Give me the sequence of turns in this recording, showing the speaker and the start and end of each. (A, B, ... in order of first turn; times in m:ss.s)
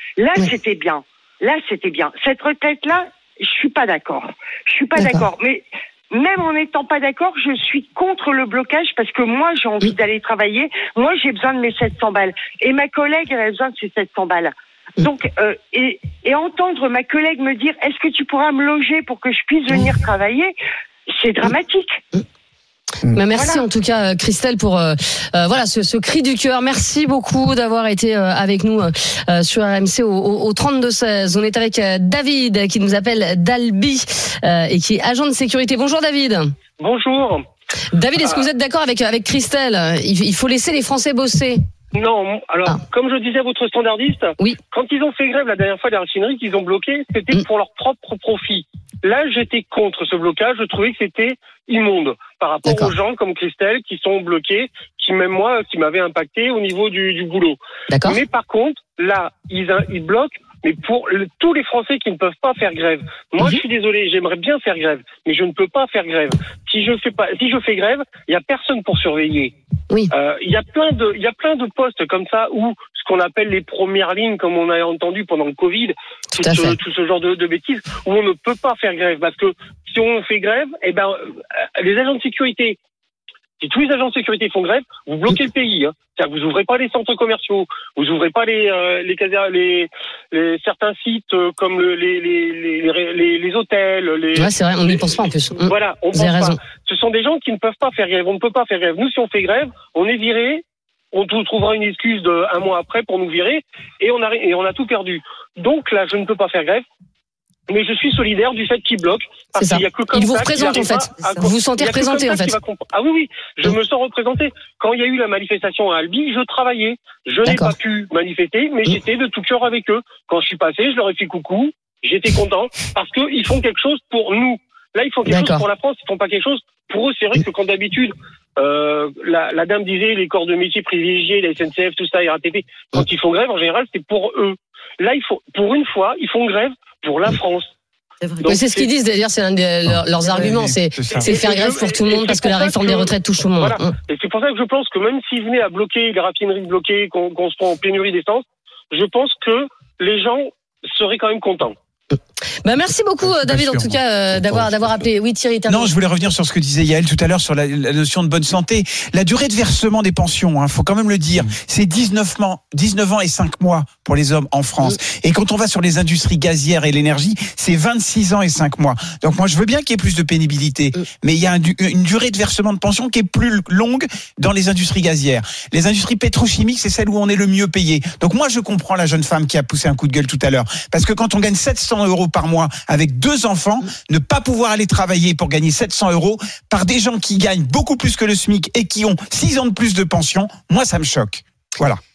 0:00.2-0:20.5 A
0:05.0-0:05.3 B
0:21.1-0:22.0 A
0:23.1-0:36.5 B
0:23.3-0:23.6 A
0:36.8-0:37.5 C
0:37.9-0:41.6 B
0:41.9-1:09.5 C
0:52.6-0:52.9 B
0:57.9-0:58.2 B
1:10.1-1:22.8 C
1:16.4-1:16.8 B
1:23.6-1:46.8 C
1:34.3-1:36.6 B
1:47.7-2:17.7 C
1:49.6-1:52.6 B
1:57.4-1:57.7 B
2:05.3-2:05.6 B
2:18.4-2:18.9 C
2:18.4-2:24.0 B
2:20.4-2:21.3 D
2:21.2-2:31.8 C
2:32.1-2:35.9 B
2:33.2-2:34.7 D
2:35.7-3:12.0 D